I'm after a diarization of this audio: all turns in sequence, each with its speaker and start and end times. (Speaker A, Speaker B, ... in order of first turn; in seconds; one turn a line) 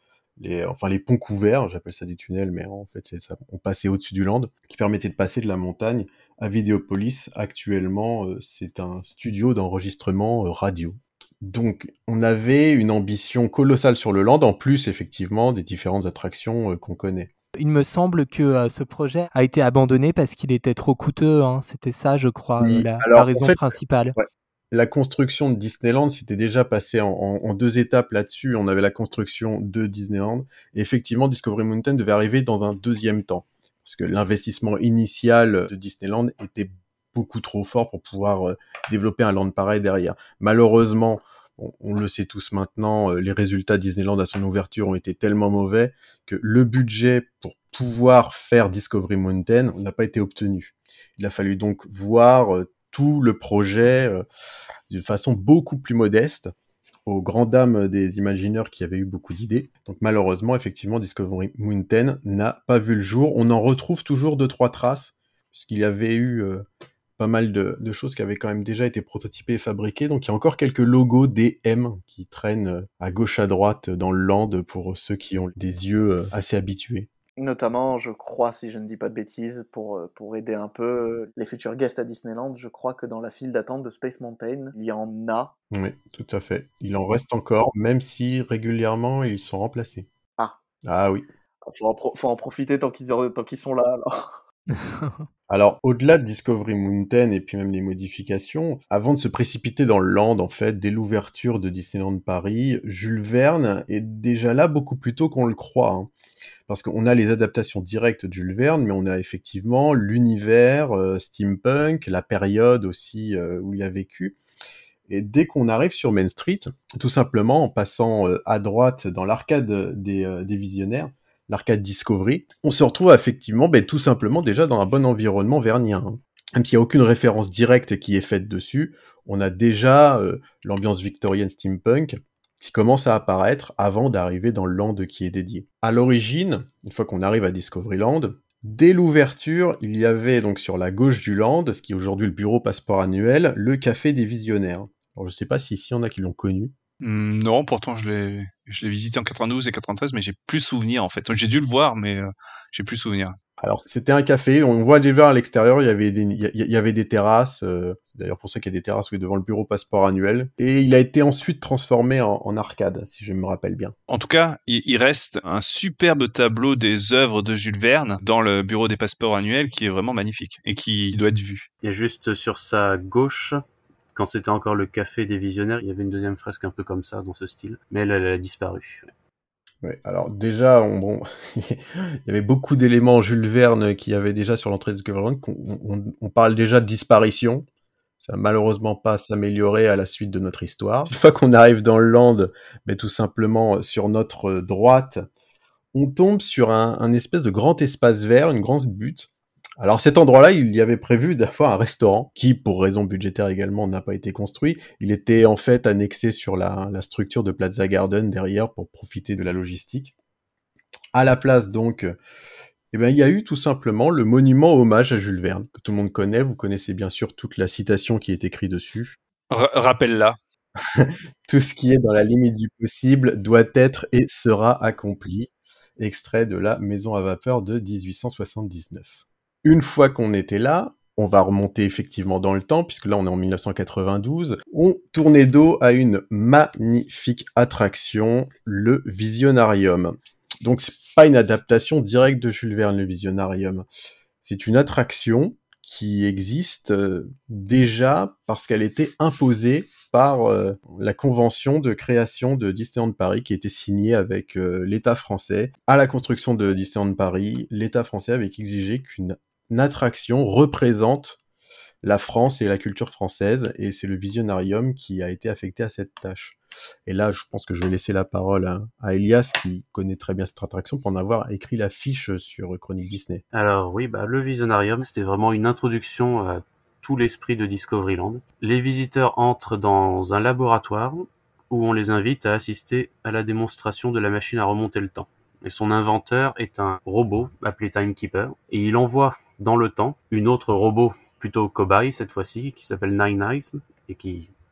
Speaker A: 0.4-17.3
Speaker B: 17.6-24.2
Speaker A: 22.6-54.2
Speaker A: 54.9-56.5
Speaker A: 57.1-66.7
Speaker A: 67.2-77.1
Speaker C: 77.4-85.5
Speaker A: 85.7-90.1
Speaker A: 90.8-91.3
Speaker C: 91.7-94.4
Speaker B: 94.8-95.2
Speaker A: 95.5-106.1
Speaker A: 106.7-114.4
Speaker A: 115.1-146.7
Speaker D: 147.0-153.4
Speaker A: 153.6-163.9
Speaker D: 164.1-171.7
Speaker E: 171.8-173.6
Speaker E: 174.2-179.1
Speaker A: 179.8-187.7
Speaker A: 188.2-195.3
Speaker A: 195.9-210.1
Speaker A: 211.1-212.2
Speaker A: 212.9-219.2
Speaker D: 219.5-220.4
Speaker A: 220.9-243.9
Speaker A: 244.4-261.4
Speaker A: 262.0-273.4
Speaker E: 273.5-294.5